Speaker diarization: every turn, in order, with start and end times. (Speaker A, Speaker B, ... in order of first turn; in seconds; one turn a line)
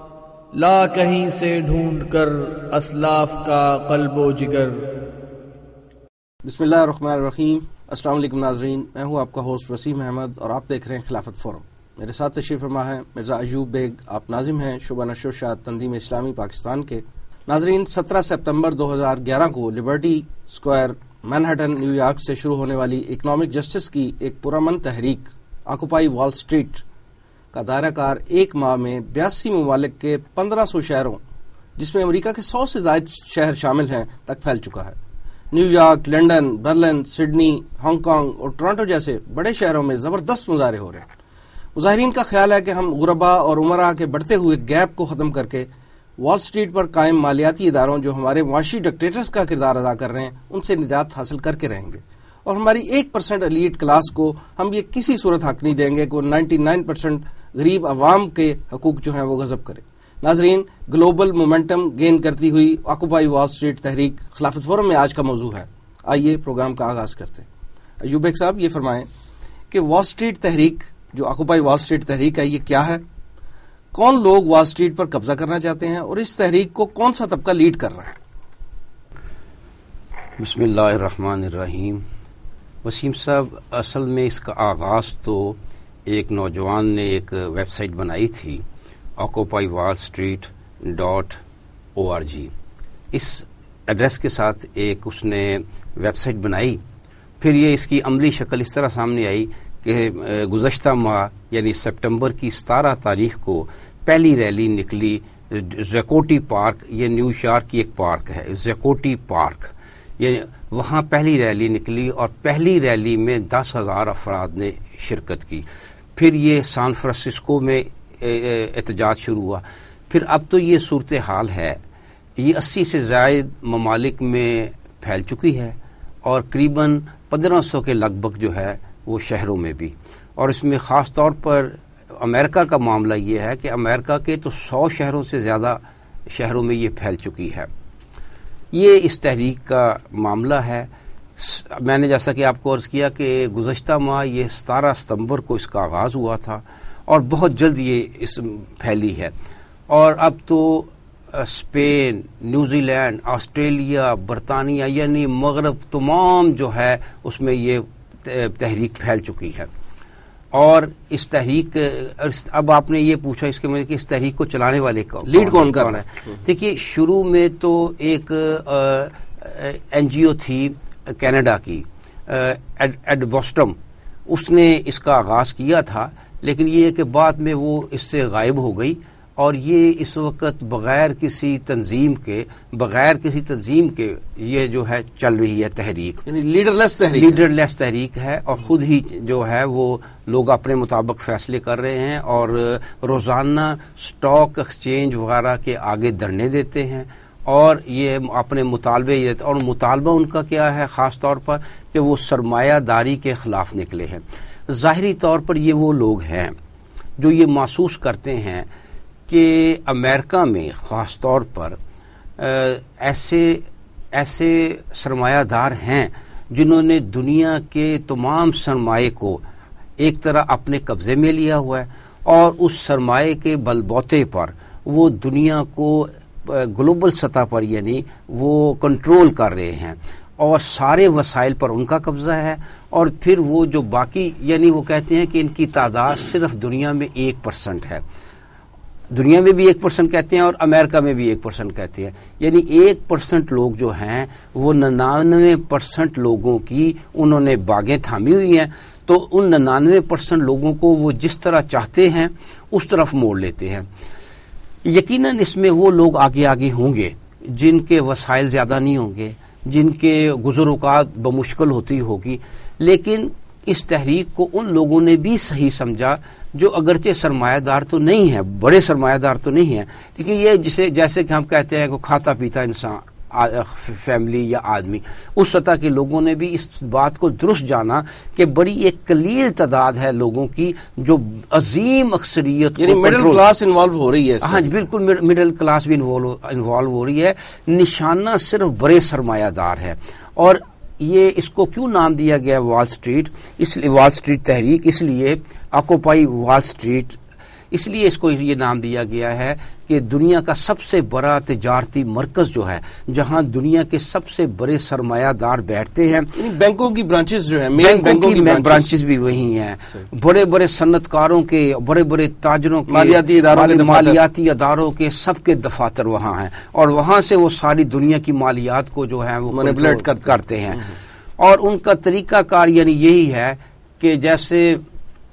Speaker A: 0.5-4.8
Speaker B: 6.4-26.8
Speaker B: 27.5-31.2
Speaker B: 31.8-35.0
Speaker B: 35.5-41.0
Speaker B: 41.7-67.5
Speaker B: 68.0-69.1
Speaker B: 69.7-73.0
Speaker B: 73.9-78.1
Speaker C: 80.4-82.0
Speaker C: 82.8-88.6
Speaker C: 89.2-91.4
Speaker C: 92.0-92.5
Speaker C: 93.1-96.8
Speaker C: 97.4-115.7
Speaker C: 116.2-121.8
Speaker C: 122.4-137.7
Speaker C: 138.7-149.3
Speaker C: 149.9-159.7
Speaker C: 160.5-173.8
Speaker B: 165.3-166.0
Speaker C: 174.3-186.2
Speaker B: 186.2-187.4
Speaker C: 187.1-206.5
Speaker C: 207.2-208.7
Speaker C: 209.3-211.8
Speaker C: 212.4-219.4
Speaker C: 220.0-238.0
Speaker C: 239.1-253.9
Speaker C: 254.8-283.4
Speaker B: 282.8-284.7
Speaker C: 284.4-297.2
Speaker C: 297.7-306.3
Speaker B: 306.4-309.0
Speaker C: 307.8-320.9
Speaker B: 312.9-314.2
Speaker B: 319.5-320.9
Speaker C: 321.4-324.8